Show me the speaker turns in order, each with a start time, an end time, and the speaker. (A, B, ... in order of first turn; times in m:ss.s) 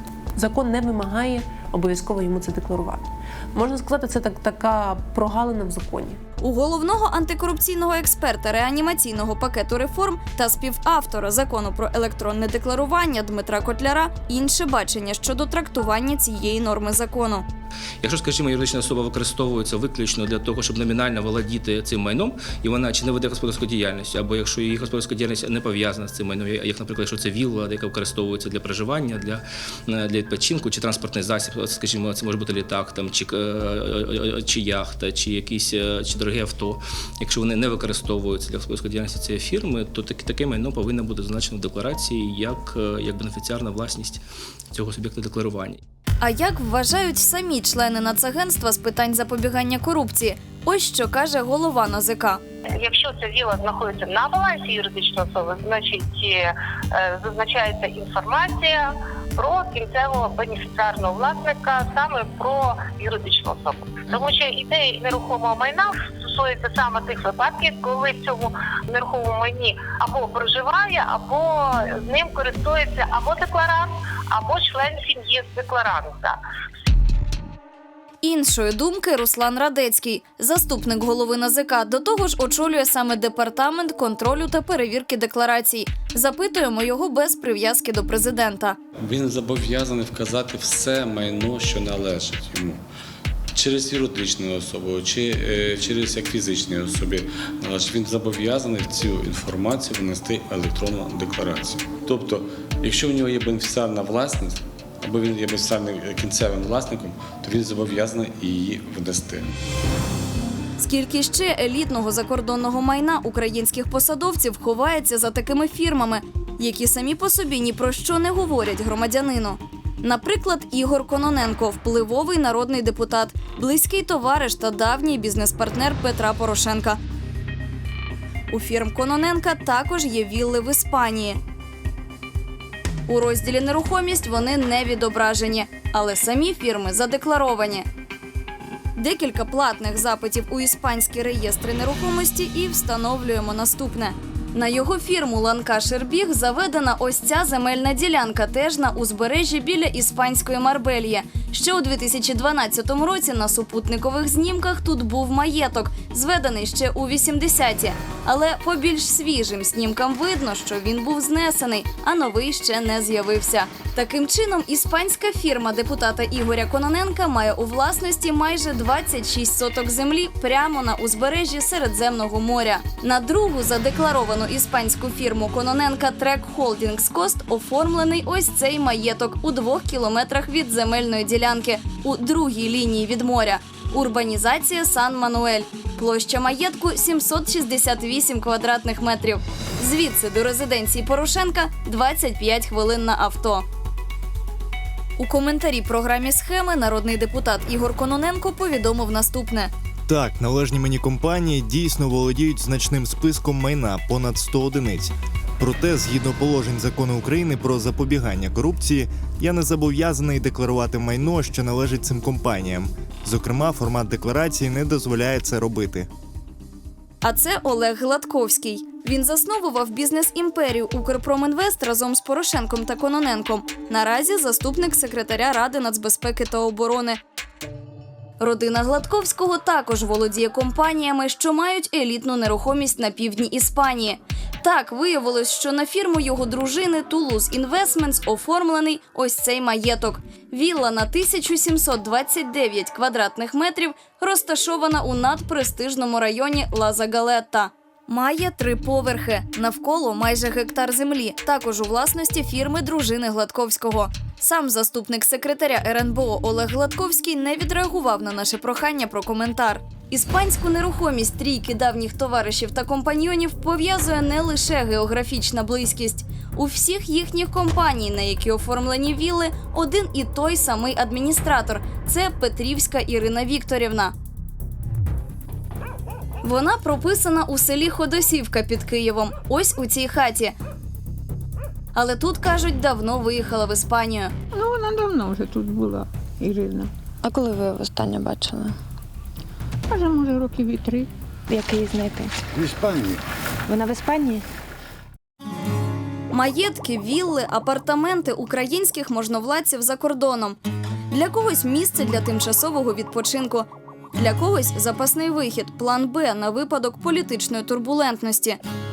0:00.4-0:06.2 A
0:06.4-0:17.4 B
0:18.0-0:44.2 C
0:44.7-0:45.8 C
0:46.2-0:52.4 B
0:52.8-1:16.4 D
1:18.2-1:28.8 B
1:29.0-1:32.8 E
1:33.6-1:49.5 E
1:50.8-2:07.0 B
2:08.5-2:11.4 B
2:13.1-2:17.9 B
2:19.0-3:13.6 B
3:15.2-3:19.7 B
3:20.1-3:36.1 F
3:37.2-3:47.2 B
3:48.4-4:34.2 B
4:36.4-4:40.6 B
4:41.9-4:44.3 B
4:44.5-4:46.9 G
4:47.2-4:48.8 H
4:49.9-4:51.1 G
4:51.5-4:52.4 H
4:53.7-4:54.5 H
4:56.3-5:00.6 B
5:01.1-5:08.6 B